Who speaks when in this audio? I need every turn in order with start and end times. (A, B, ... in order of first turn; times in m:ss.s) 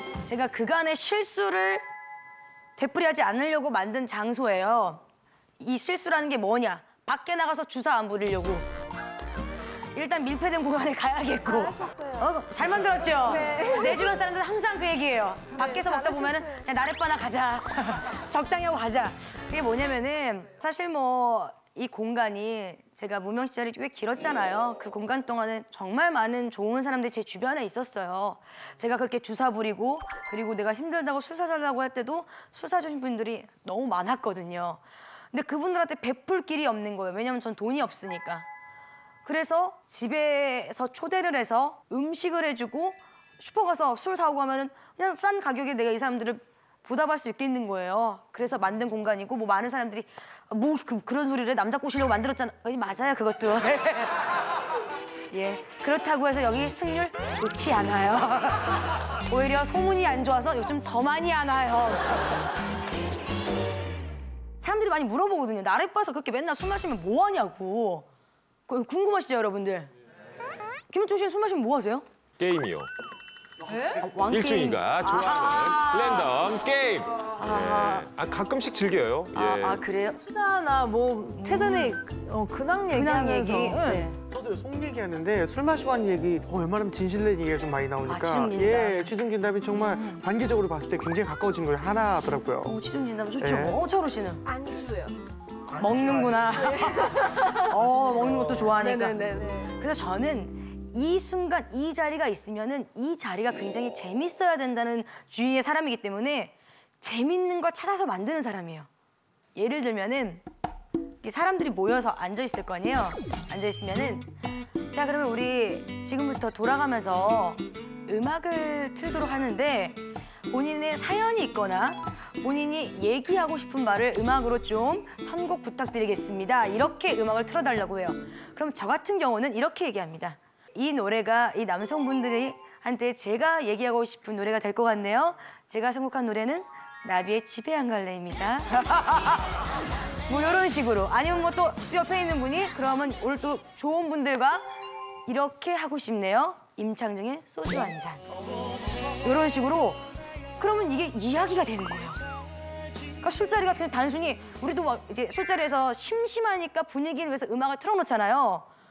0:00.2-0:01.8 A
0:02.8-0:05.0 A
0:05.6-0:08.7 A
0:09.9-0:34.8 A
0:13.3-0:14.0 B
0:15.6-0:16.6 B
0:35.3-0:38.5 A
0:39.2-0:54.2 A
0:55.3-1:02.2 A
1:04.6-1:08.0 A
1:08.7-1:09.9 A
1:10.9-1:12.0 A
1:12.4-1:12.9 C
1:13.9-1:16.3 A
1:14.2-1:19.8 C
1:17.4-1:18.0 A
1:19.4-1:24.1 B
1:19.4-1:20.2 A
1:21.3-1:22.0 A
1:22.9-1:24.2 A
1:24.3-1:32.7 D
1:28.1-1:29.1 A
1:29.7-1:30.2 A
1:32.6-1:34.5 A
1:33.4-1:33.8 D
1:34.6-1:35.1 B
1:35.7-1:48.9 A
1:35.9-1:36.4 D
1:36.7-1:37.7 B
1:38.3-1:39.7 B
1:49.5-1:50.4 A
1:51.2-1:54.3 A
1:54.9-2:19.4 A
2:20.3-2:24.6 A
2:25.3-2:28.2 A
2:29.2-2:30.0 A
2:30.6-2:32.2 A
2:33.2-2:38.6 A